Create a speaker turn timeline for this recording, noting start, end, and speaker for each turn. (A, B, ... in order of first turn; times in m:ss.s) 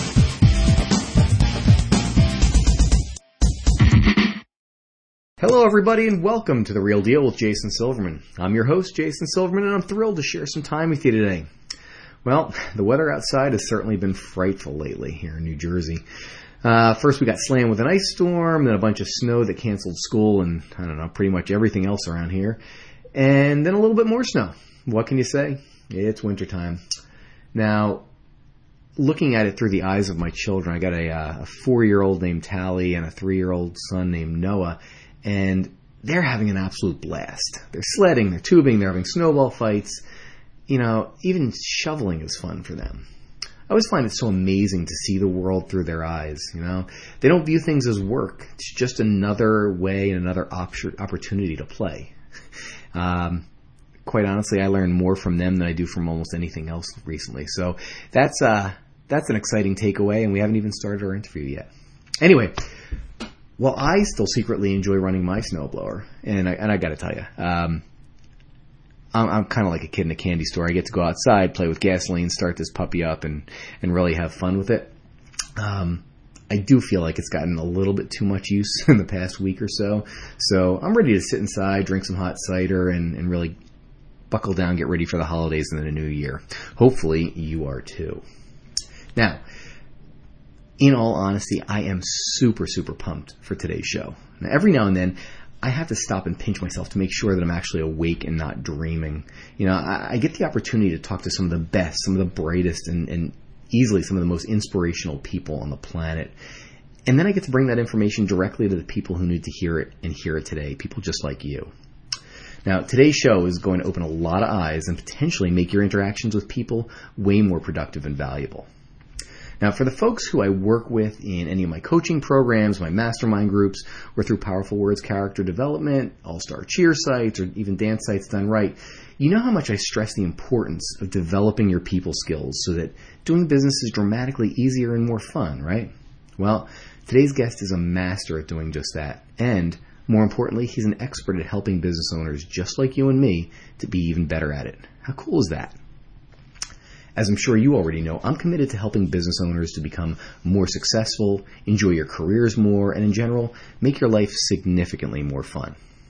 0:05.4-0:11.5 A
0:12.2-0:16.0 A
0:16.6-0:22.6 A
0:23.1-0:26.8 A
0:27.5-0:28.0 A
0:29.0-0:40.0 A
0:40.7-0:43.0 A
0:43.7-0:52.1 A
0:52.9-0:53.4 A
0:54.0-1:01.7 A
1:02.2-1:02.6 A
1:03.6-1:07.8 A
1:09.1-1:14.9 A
1:15.6-1:23.5 A
1:24.3-1:28.2 A
1:29.2-1:29.4 A
1:30.8-1:46.3 A
1:47.0-1:51.7 A
1:52.6-1:58.7 A
1:59.6-2:25.8 A
2:27.1-2:35.7 A